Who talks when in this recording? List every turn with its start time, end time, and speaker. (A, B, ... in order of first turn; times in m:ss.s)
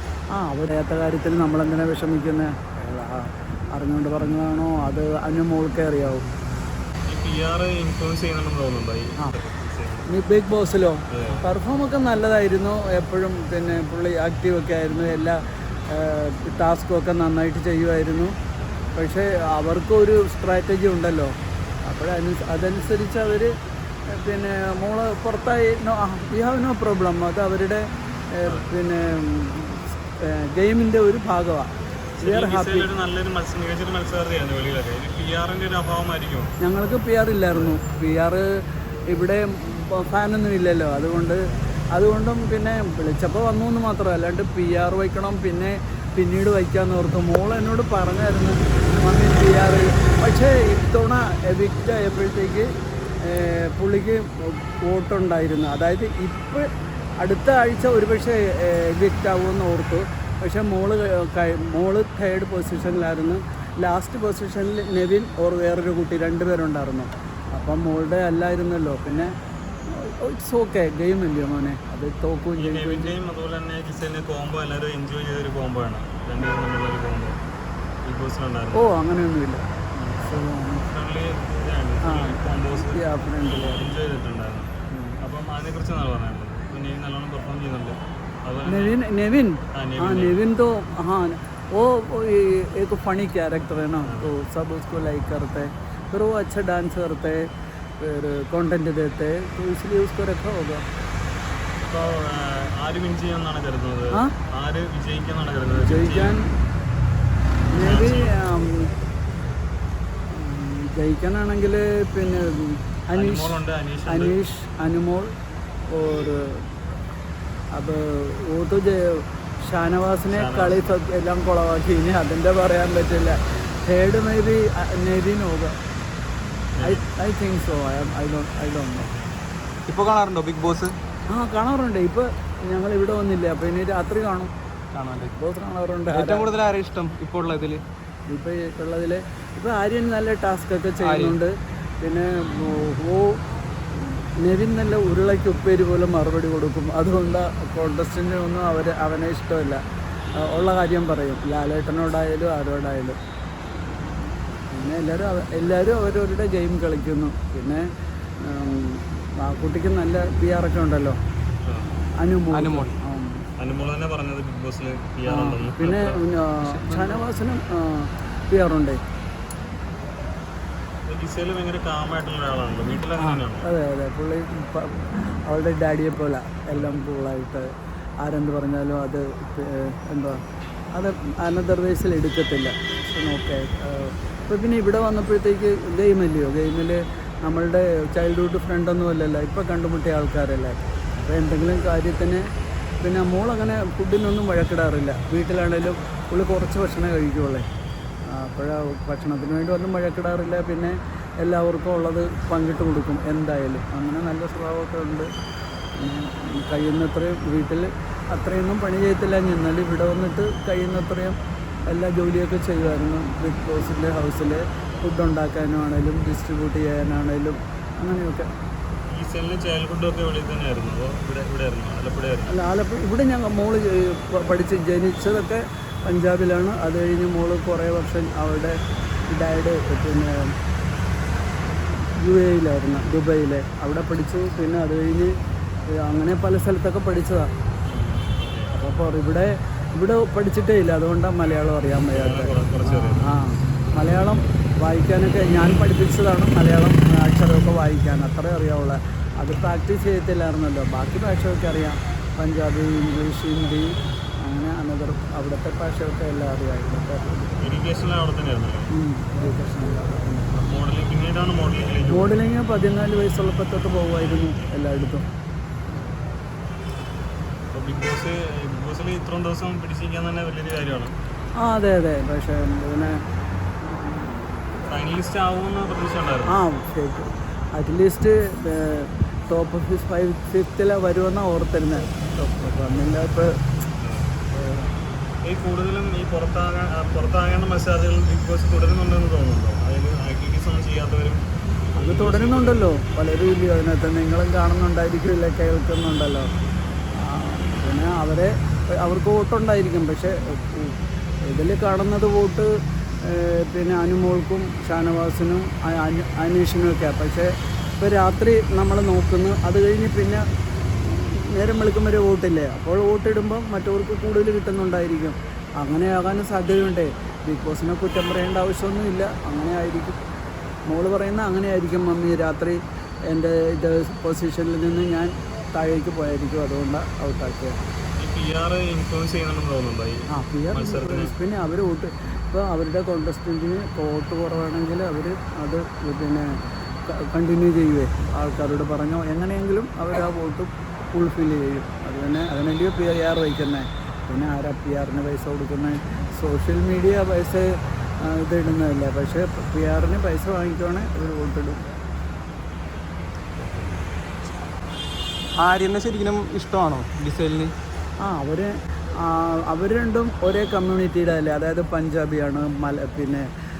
0:00.3-0:06.2 A
0:07.1-0:10.1 B
0:10.1-0:18.3 A
0:11.1-0:11.4 B
0:19.0-0:21.3 A
0:21.8-0:23.5 A
0:24.1-0:31.7 A
0:28.4-0:28.7 B
0:32.2-0:36.5 B
0:32.2-0:32.9 A
0:36.6-0:38.4 A
0:37.5-0:37.8 B
0:39.1-0:41.4 A
0:41.9-0:52.7 A
0:53.2-0:56.6 A
0:57.2-1:09.3 A
1:09.9-1:13.1 A
1:12.6-1:17.4 B
1:18.0-1:18.9 B
1:18.7-1:20.8 A
1:20.8-1:29.0 B
1:22.0-1:23.9 A
1:24.9-1:25.2 A
1:28.6-1:37.4 A
1:29.7-1:30.4 B
1:34.0-1:34.3 B
1:38.0-1:40.8 A
1:41.8-1:46.4 B
1:45.7-1:46.5 A
1:47.7-1:48.9 A
1:47.7-1:48.4 B
1:50.3-1:55.3 A
1:53.1-1:54.4 B
1:55.9-1:56.6 A
1:57.7-2:05.7 A
2:00.3-2:00.9 B
2:06.8-2:07.0 B
2:06.8-2:09.2 A
2:09.9-2:11.0 C
2:11.3-2:14.5 A
2:14.9-2:15.3 C
2:15.4-2:16.5 A
2:16.1-2:17.8 C
2:18.3-2:23.4 A
2:21.0-2:21.4 C
2:24.4-2:29.8 A
2:30.4-2:33.2 A
2:34.7-2:37.8 A
2:38.4-2:41.2 A
2:41.6-2:41.9 B
2:42.2-2:43.4 A
2:42.5-2:42.9 C
2:43.6-2:46.2 B
2:45.3-2:49.0 A
2:46.6-2:47.3 C
2:51.1-2:53.7 B
2:53.2-2:57.6 A
2:58.2-3:00.4 A
3:01.0-3:12.4 A
3:13.0-3:17.6 A
3:18.3-3:25.3 A
3:26.0-3:31.4 A
3:31.9-3:38.5 A
3:39.1-3:42.6 B
3:42.5-3:48.8 A
3:49.3-3:50.5 A
3:52.2-3:55.3 A
3:55.9-3:57.5 A
3:57.8-3:58.8 B
3:58.7-4:17.6 A
4:02.1-4:03.4 B
4:17.6-4:18.9 B
4:18.9-4:20.7 A
4:20.7-4:22.3 B
4:22.1-4:25.2 A
4:27.7-4:31.2 B
4:31.6-4:33.2 A
4:33.8-4:34.5 A
4:34.9-4:36.6 B
4:36.5-4:43.6 A
4:44.0-4:44.4 B
4:44.5-4:44.9 A
4:45.4-4:51.4 B
4:51.9-4:52.9 B
4:52.0-4:56.5 A
4:57.2-5:00.9 A
5:01.4-5:02.7 A
5:03.2-5:07.5 A
5:08.0-5:10.4 A
5:11.3-5:20.2 A
5:20.9-5:22.8 A
5:23.3-5:27.8 A
5:28.2-5:31.3 B
5:30.3-5:36.5 A
5:37.1-5:51.9 A
5:53.6-5:53.9 C
5:55.6-5:57.7 C
5:58.2-6:03.5 A